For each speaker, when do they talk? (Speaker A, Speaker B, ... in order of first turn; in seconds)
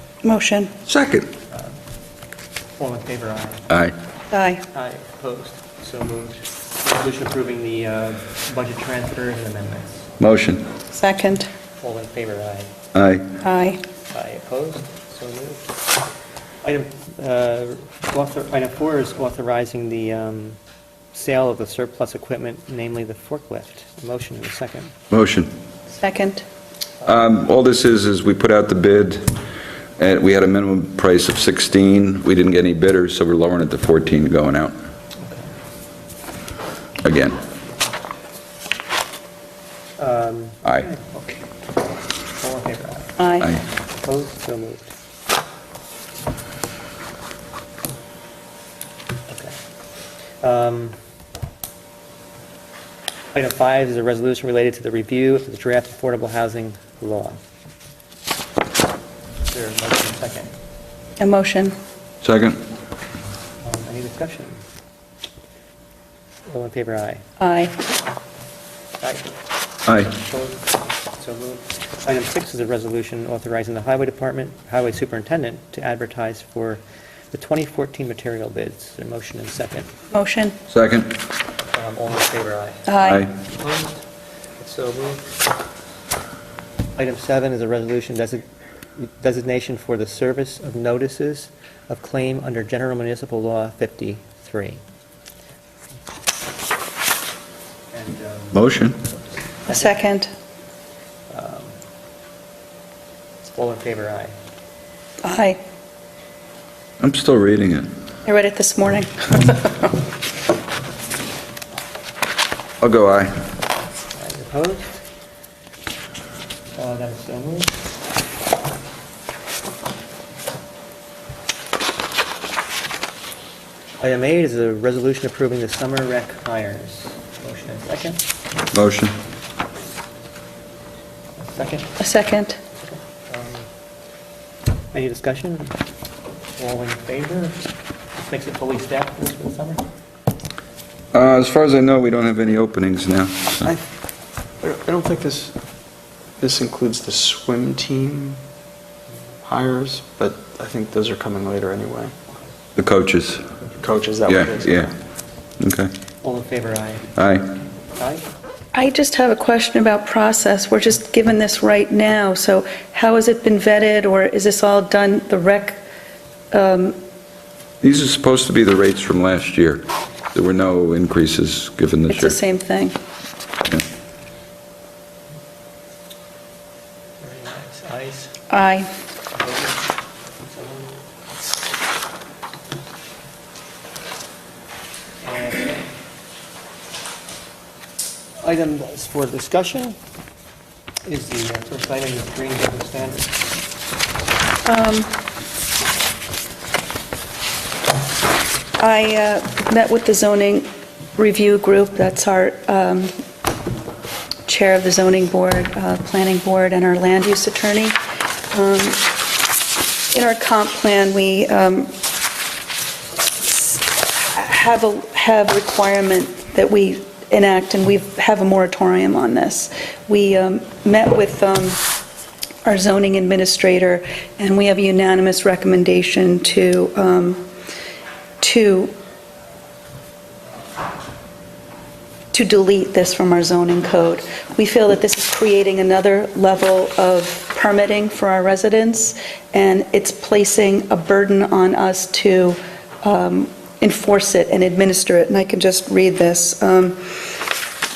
Speaker A: 0.2-0.7, 4.3-4.6, 10.9-11.5, 13.4-13.8, 26.0-26.4, 43.2-43.5, 61.2-61.7, 67.4-67.7, 80.1-80.5, 82.9-83.2, 99.7-100.3, 105.2-105.6, 108.2-110.0, 132.0-132.6, 158.7-165.8, 166.5-166.9, 172.1-172.9, 178.5-178.9, 194.7-195.1, 198.8-203.1, 204.5-207.9, 208.5-209.1, 210.1-211.9, 213.4-221.8, 222.6-227.5, 228.4-228.9, 232.3-247.4
Speaker B: 0.9-1.3, 10.2-10.7, 12.9-13.2, 25.1-25.5, 27.0-29.3, 30.0-34.7, 37.0-37.4, 62.2-62.6, 69.8-70.1, 80.7-81.1, 98.5-99.0, 107.0-107.9, 112.8-113.3, 128.7-129.2, 141.1-143.6, 152.8-153.4, 154.3-154.9, 155.6-155.9, 157.2-157.5, 167.8-172.3
Speaker C: 1.5-1.8, 2.8-3.7, 4.7-10.1, 11.8-12.7, 14.1-15.7, 16.6-20.6, 21.1-24.9, 35.2-35.5, 40.0-41.5, 42.4-43.2, 44.0-44.9, 49.3-49.6, 50.4-51.0, 53.3-57.4, 59.5-60.5, 63.6-64.6, 66.5-67.2, 69.0-69.3, 70.0-70.6, 71.2-79.9, 81.7-84.0, 84.6-85.2, 87.0-88.4, 89.0-94.8, 97.9-98.7, 99.7-100.0, 101.3-101.8, 103.5-104.3, 114.1-115.0, 116.8-117.8, 124.0-128.2, 131.4-132.0, 132.8-133.7, 134.9-135.8, 136.6-137.6, 138.2-139.8, 156.2-157.1, 157.9-158.2, 177.2-178.3, 179.3-179.8, 180.4-181.0, 185.2-185.9, 188.4-189.9, 191.0-193.4
Speaker D: 144.6-145.5, 146.4-148.4, 149.4-152.1, 153.8-154.9